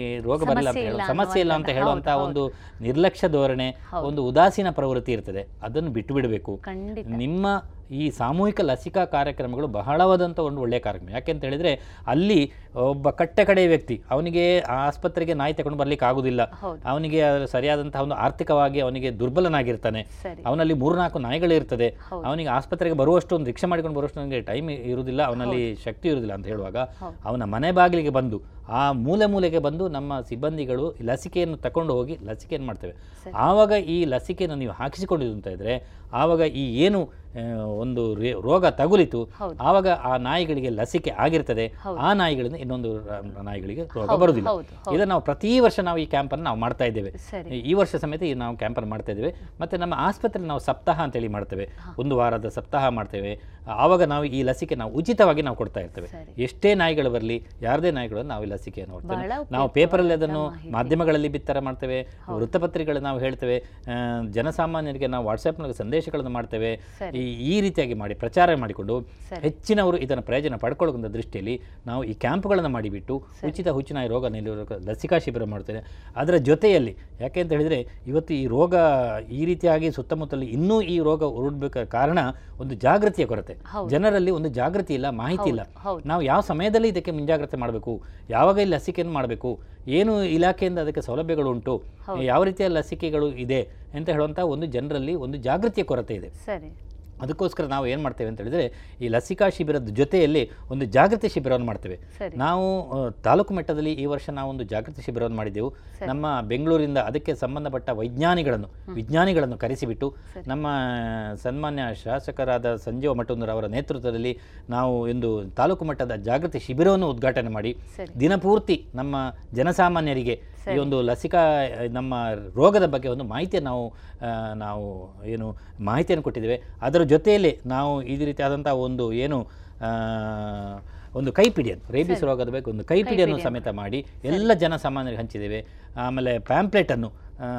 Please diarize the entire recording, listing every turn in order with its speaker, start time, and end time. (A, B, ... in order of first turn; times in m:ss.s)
0:00.3-0:07.5 A
0:00.4-0:02.4 B
0:06.7-0:07.2 B
0:08.0-0:12.4 A
0:12.9-1:18.8 A
0:16.6-0:16.8 B
0:20.2-0:20.5 B
0:44.1-0:45.0 B
0:47.2-0:47.5 B
0:56.0-0:56.3 B
0:59.1-1:00.9 B
1:13.4-1:13.6 B
1:19.4-1:36.3 A
1:23.7-1:23.9 B
1:25.4-1:26.0 B
1:36.4-1:36.8 B
1:37.2-1:42.7 A
1:43.3-2:17.1 A
2:00.6-2:00.9 B
2:13.0-2:13.6 B